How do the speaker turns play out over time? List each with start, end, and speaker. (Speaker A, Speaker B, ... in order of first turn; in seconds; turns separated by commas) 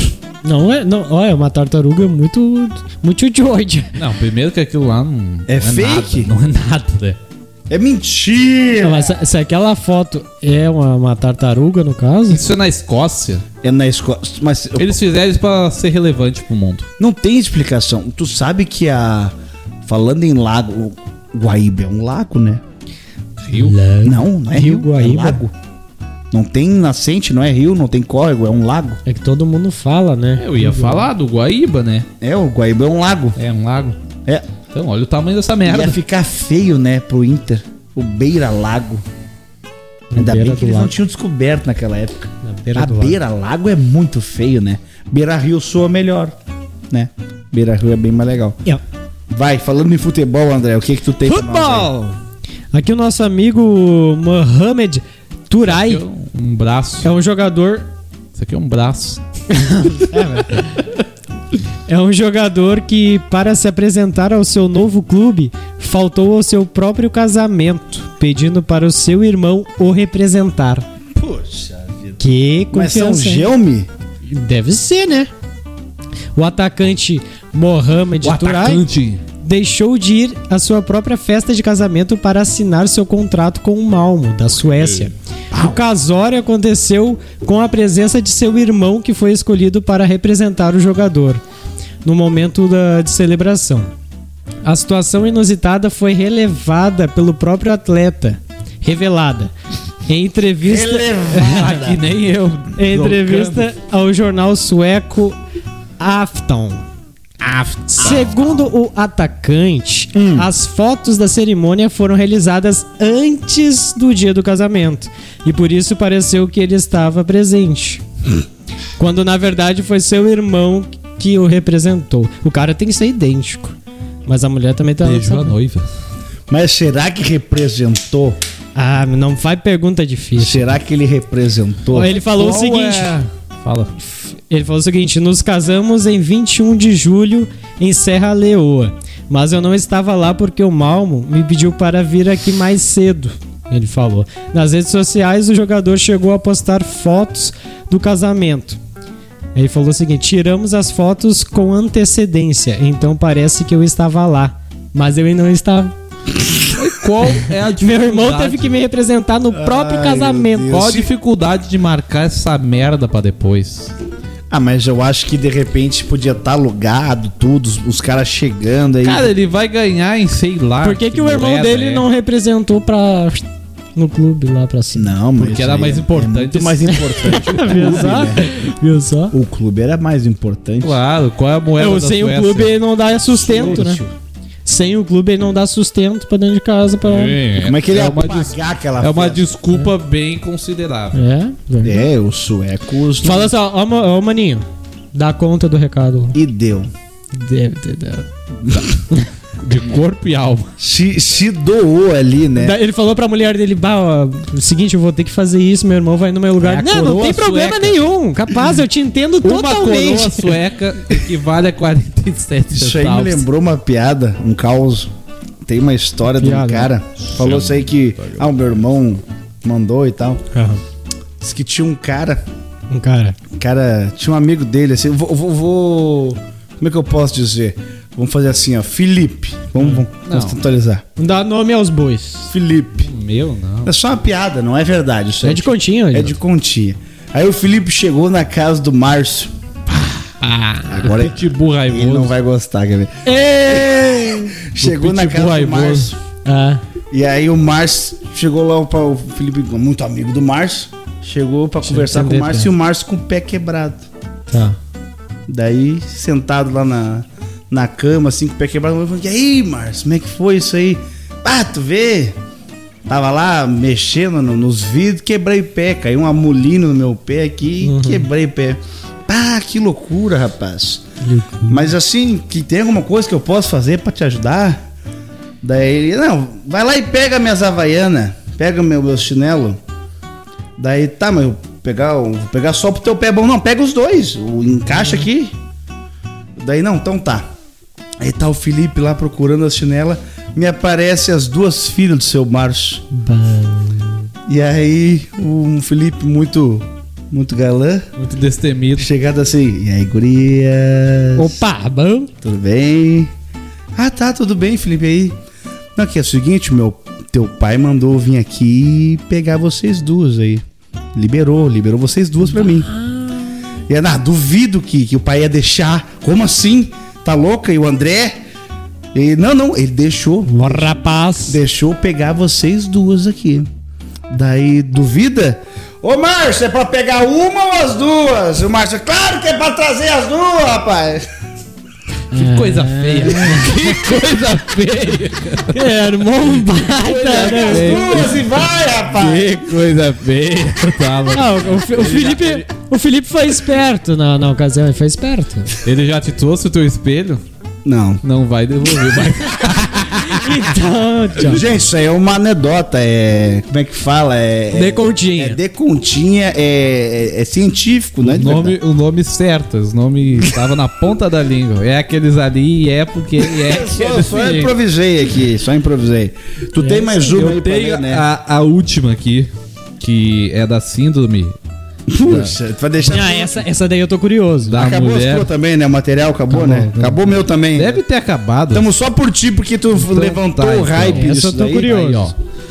Speaker A: 0.4-3.9, Speaker B: 3.9-7.2, Speaker C: 5.5-6.3, Speaker C: 7.7-9.1, Speaker A: 8.8-12.4, Speaker B: 12.3-13.4, Speaker C: 13.6-15.0, Speaker B: 14.8-16.9, Speaker C: 17.0-19.3, Speaker C: 19.9-22.6, Speaker B: 23.4-23.8, Speaker A: 23.5-25.4, Speaker C: 24.0-25.5, Speaker C: 26.3-29.0, Speaker A: 29.0-31.1, Speaker B: 30.4-32.1, Speaker C: 32.2-33.4, Speaker B: 33.4-34.0, Speaker B: 34.7-36.0, Speaker C: 35.6-39.0, Speaker A: 40.1-40.9, Speaker C: 40.1-46.4, Speaker A: 42.4-43.2, Speaker C: 46.9-48.6, Speaker C: 49.3-51.9, Speaker A: 51.2-52.1, Speaker A: 52.7-56.0, Speaker B: 55.6-57.1, Speaker A: 57.0-57.9, Speaker B: 58.4-59.2, Speaker A: 59.5-60.7, Speaker A: 61.9-70.8, Speaker C: 71.1-72.2, Speaker A: 72.2-73.5, Speaker C: 72.7-73.9, Speaker A: 74.3-75.3, Speaker A: 76.3-78.8, Speaker B: 78.2-79.2, Speaker A: 79.4-91.4, Speaker A: 92.0-93.9, Speaker A: 94.6-99.5, Speaker A: 100.1-101.8, Speaker C: 100.6-102.0, Speaker B: 101.4-103.7, Speaker A: 102.8-105.4, Speaker A: 106.0-106.8, Speaker B: 107.4-108.3, Speaker A: 107.9-118.0, Speaker C: 110.1-110.5, Speaker A: 119.0-125.5, Speaker B: 125.0-125.8, Speaker C: 126.5-128.4, Speaker A: 128.7-130.7, Speaker C: 130.4-132.1, Speaker A: 131.9-133.2, Speaker B: 132.1-133.9, Speaker A: 134.2-148.8, Speaker A: 149.5-155.9, Speaker B: 156.7-158.8, Speaker A: 157.8-160.8, Speaker C: 159.5-161.1, Speaker B: 160.7-163.9, Speaker C: 164.5-169.3, Speaker B: 169.0-172.1, Speaker A: 170.8-175.1, Speaker C: 174.9-178.5, Speaker B: 175.4-177.4, Speaker A: 177.1-179.3, Speaker C: 179.3-181.0, Speaker B: 180.8-182.8, Speaker A: 181.8-184.0, Speaker C: 183.3-184.1, Speaker A: 184.7-187.4, Speaker B: 187.1-191.2, Speaker C: 187.6-189.4, Speaker A: 191.1-192.1, Speaker C: 191.8-193.5, Speaker A: 193.2-196.4, Speaker C: 196.3-196.9, Speaker A: 197.3-198.3, Speaker B: 199.6-200.7, Speaker C: 200.8-202.8, Speaker A: 202.6-210.6, Speaker B: 206.6-208.0, Speaker B: 209.4-213.4, Speaker C: 212.7-215.1, Speaker C: 215.6-220.4, Speaker A: 216.4-216.9, Speaker B: 217.3-218.8, Speaker A: 220.5-220.8, Speaker C: 221.4-222.4, Speaker A: 222.9-223.4, Speaker C: 223.5-231.0, Speaker B: 230.2-230.6, Speaker A: 231.2-232.5, Speaker C: 232.5-233.1, Speaker B: 233.0-233.9, Speaker C: 233.8-239.5, Speaker A: 235.4-236.3, Speaker B: 239.9-242.3, Speaker C: 240.9-246.2, Speaker A: 243.2-244.4, Speaker B: 244.8-246.1, Speaker A: 246.4-246.8, Speaker C: 247.1-254.0, Speaker A: 251.8-252.7, Speaker A: 254.5-254.8, Speaker C: 255.5-262.4, Speaker C: 263.1-271.0, Speaker A: 267.8-268.3, Speaker A: 271.2-271.9, Speaker C: 271.7-274.8, Speaker C: 275.6-279.8, Speaker C: 280.8-285.5, Speaker C: 286.6-287.5, Speaker C: 288.2-293.0, Speaker A: 293.1-294.3, Speaker C: 294.5-298.1, Speaker B: 298.2-299.1, Speaker C: 298.9-301.6, Speaker A: 301.4-302.3, Speaker C: 302.4-303.3, Speaker C: 303.9-305.4, Speaker C: 305.9-310.6, Speaker C: 311.1-312.9, Speaker A: 312.6-313.3, Speaker C: 313.9-318.3, Speaker C: 319.1-323.7, Speaker A: 320.5-321.6, Speaker C: 324.3-331.2, Speaker A: 332.3-334.0, Speaker B: 332.3-335.9, Speaker A: 335.7-338.1, Speaker C: 337.0-339.6, Speaker B: 337.7-338.4, Speaker B: 339.1-342.6, Speaker A: 341.3-345.8, Speaker B: 345.8-347.4, Speaker C: 347.8-348.2, Speaker B: 348.2-350.6, Speaker A: 350.1-351.6, Speaker C: 351.4-358.8, Speaker A: 354.7-355.6, Speaker B: 358.2-364.7, Speaker C: 363.4-368.2, Speaker A: 366.8-367.4, Speaker B: 367.2-371.5, Speaker C: 372.1-373.6, Speaker B: 372.2-372.6, Speaker A: 373.0-374.8, Speaker B: 374.7-375.5, Speaker C: 374.7-378.0, Speaker A: 376.5-377.2, Speaker B: 377.7-378.9, Speaker C: 378.7-381.9, Speaker B: 380.0-382.4, Speaker A: 381.1-382.3